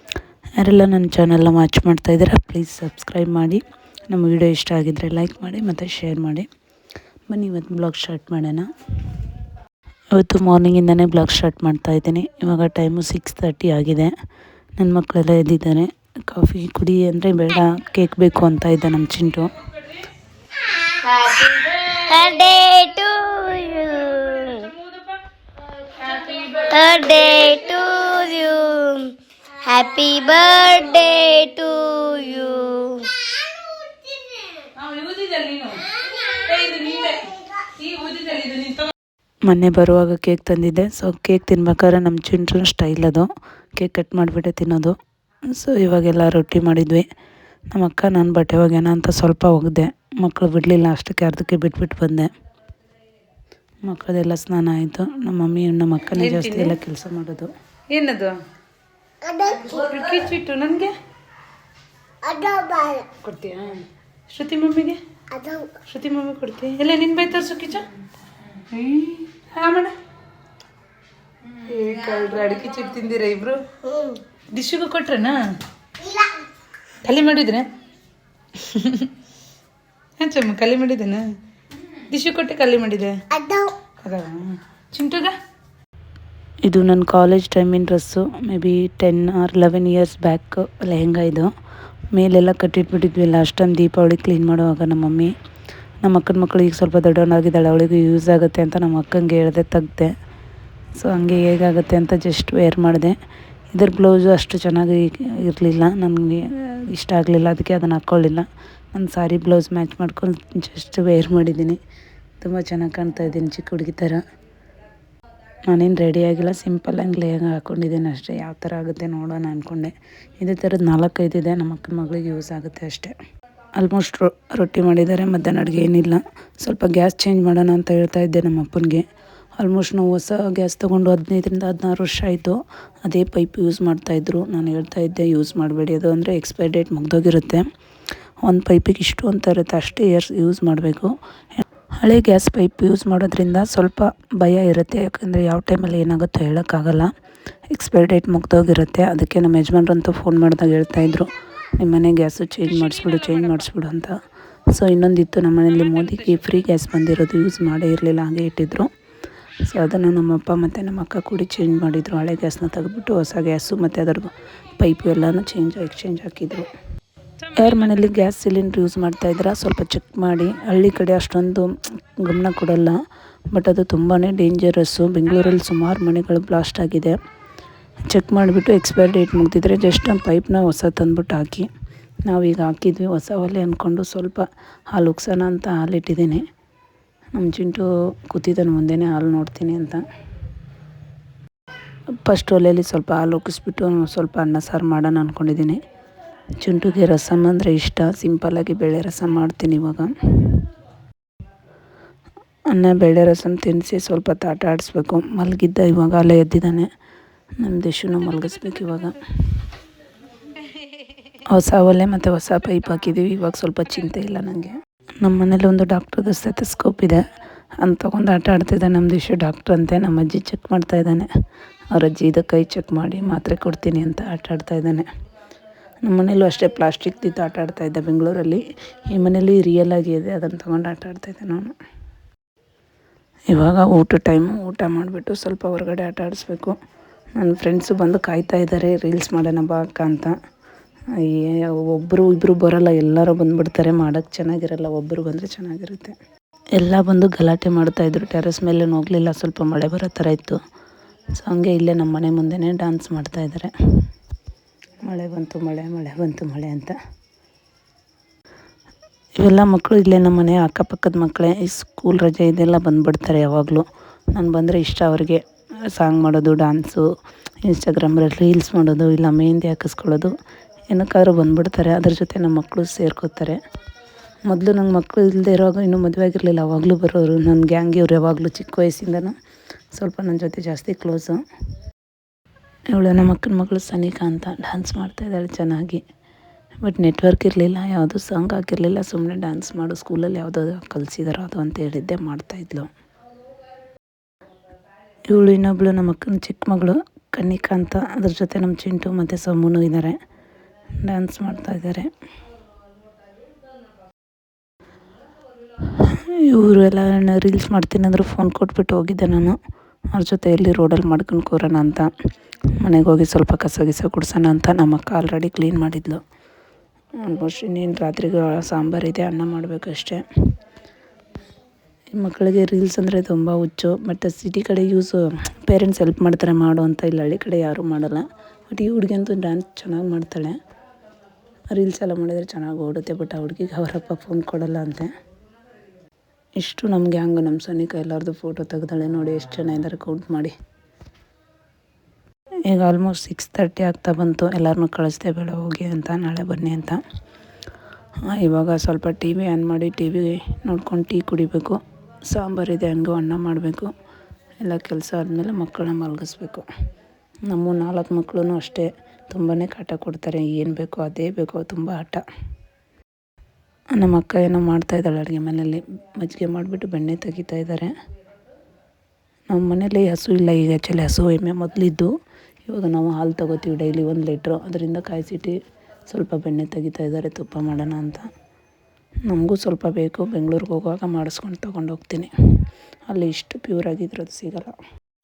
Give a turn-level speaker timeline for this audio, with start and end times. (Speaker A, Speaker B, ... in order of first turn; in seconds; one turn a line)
Speaker A: 0.6-6.5
Speaker A: 7.3-8.7
Speaker A: 10.1-14.1
Speaker A: 14.8-19.5
Speaker B: 20.8-24.7
Speaker C: 26.0-27.4
Speaker B: 26.6-33.3
Speaker C: 34.7-38.9
Speaker A: 39.5-45.0
Speaker A: 45.5-47.0
Speaker A: 47.7-52.3
Speaker A: 53.8-57.5
Speaker C: 56.1-56.8
Speaker C: 57.9-58.4
Speaker C: 59.5-60.9
Speaker B: 62.4-63.0
Speaker C: 63.2-65.0
Speaker C: 65.8-67.9
Speaker C: 68.7-70.0
Speaker C: 71.5-75.4
Speaker C: 77.0-77.7
Speaker C: 78.5-79.1
Speaker C: 80.2-81.2
Speaker C: 82.1-83.2
Speaker B: 83.4-83.7
Speaker C: 84.0-85.4
Speaker A: 86.6-91.5
Speaker A: 92.1-95.3
Speaker A: 96.0-100.1
Speaker A: 101.0-103.1
Speaker A: 103.7-111.8
Speaker A: 112.4-114.2
Speaker A: 115.7-123.1
Speaker A: 123.8-129.0
Speaker A: 129.6-137.6
Speaker A: 138.4-147.1
Speaker A: 147.7-154.1
Speaker C: 153.0-153.4
Speaker A: 154.7-158.9
Speaker C: 155.8-156.2
Speaker A: 159.7-166.7
Speaker C: 167.4-168.0
Speaker A: 167.6-172.9
Speaker A: 173.5-177.2
Speaker A: 178.1-181.7
Speaker A: 182.3-186.4
Speaker A: 187.3-190.0
Speaker A: 192.2-195.8
Speaker A: 196.6-200.6
Speaker A: 202.7-206.9
Speaker A: 207.6-209.2
Speaker A: 211.5-217.2
Speaker A: 217.8-221.3
Speaker A: 221.9-225.1
Speaker A: 226.0-231.7
Speaker A: 233.5-236.8
Speaker A: 237.4-240.3
Speaker A: 241.2-246.1
Speaker A: 246.8-250.6
Speaker A: 251.4-253.7
Speaker A: 255.0-256.9
Speaker A: 259.4-267.1
Speaker A: 267.6-270.3
Speaker A: 270.9-273.6
Speaker A: 274.5-279.3
Speaker A: 279.9-281.4
Speaker A: 282.9-286.0
Speaker A: 286.8-292.9
Speaker A: 295.3-300.2
Speaker A: 301.0-302.1
Speaker A: 306.0-309.6
Speaker A: 310.1-312.1
Speaker A: 312.8-316.2
Speaker A: 317.2-320.2
Speaker A: 322.1-330.6
Speaker A: 331.7-335.1
Speaker A: 336.6-340.5
Speaker A: 342.7-347.0
Speaker A: 348.2-353.9
Speaker A: 354.6-356.7
Speaker A: 357.5-362.2
Speaker A: 363.9-367.9
Speaker A: 369.5-372.1
Speaker A: 372.7-375.5
Speaker A: 376.1-378.2
Speaker A: 379.3-382.3
Speaker A: 383.1-384.7